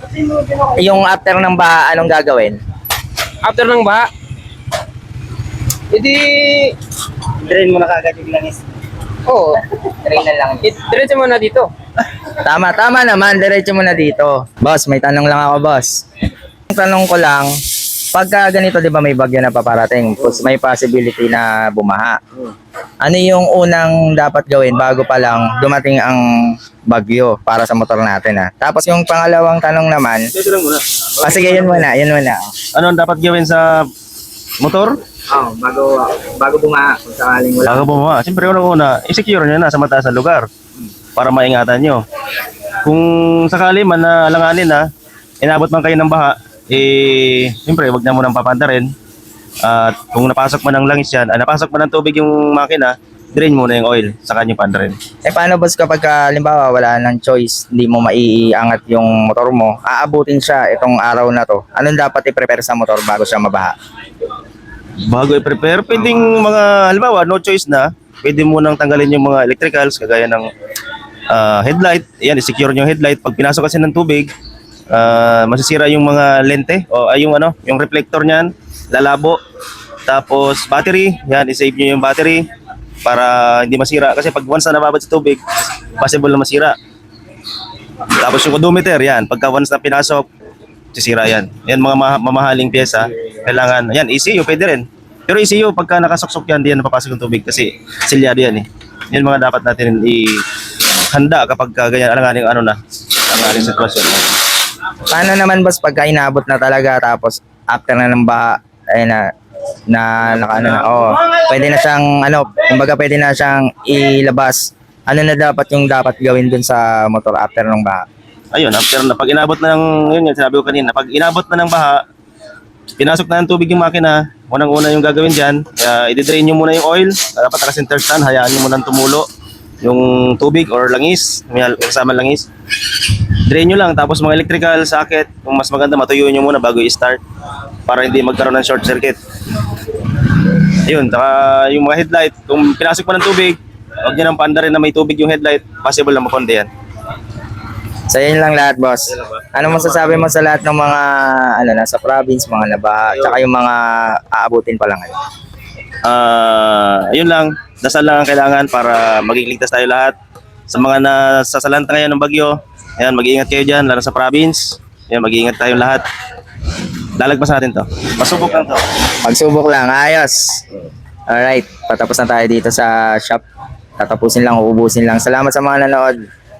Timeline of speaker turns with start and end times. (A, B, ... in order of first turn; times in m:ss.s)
0:00.5-0:02.6 A
0:03.4-0:04.1 B
0:05.9-0:06.8 B
0:07.5-0:08.6 A
0:09.3-0:09.6 B
0:10.0-0:10.7 A
0:10.6-0:11.7 B
0:12.4-0:15.9 A
0:16.7-0:17.5 A
0:18.1-0:22.2 A
0:23.0-0:30.3 A
0:30.3-0:31.8 C
0:31.2-0:32.5 A
0:32.8-0:33.9 C
0:34.6-0:35.0 C
0:35.3-0:37.9 A
0:37.6-0:40.5 C
0:41.2-0:42.0 C
0:42.8-0:44.8 C
0:45.4-0:48.9 C
0:49.6-0:55.0 C
0:55.3-1:03.7 A
1:05.1-1:10.5 C
1:11.3-1:14.3 C
1:14.9-1:19.4 C
1:20.1-1:22.4 C
1:23.0-1:26.8 C
1:28.1-1:30.3 C
1:30.9-1:42.8 C
1:43.3-1:44.4 C
1:45.1-1:49.3 A
1:49.9-1:58.0 A
1:50.4-1:51.0 C
1:58.5-2:02.0 C
2:03.0-2:09.3 C
2:09.8-2:17.2 C
2:17.9-2:19.2 C
2:20.3-2:26.7 C
2:28.1-2:35.1 A
2:29.4-2:30.2 C
2:36.0-2:40.2 C
2:40.7-2:46.0 C
2:47.2-2:48.8 C
2:49.2-2:50.6 A
2:51.3-2:53.4 A
2:54.0-2:56.2 A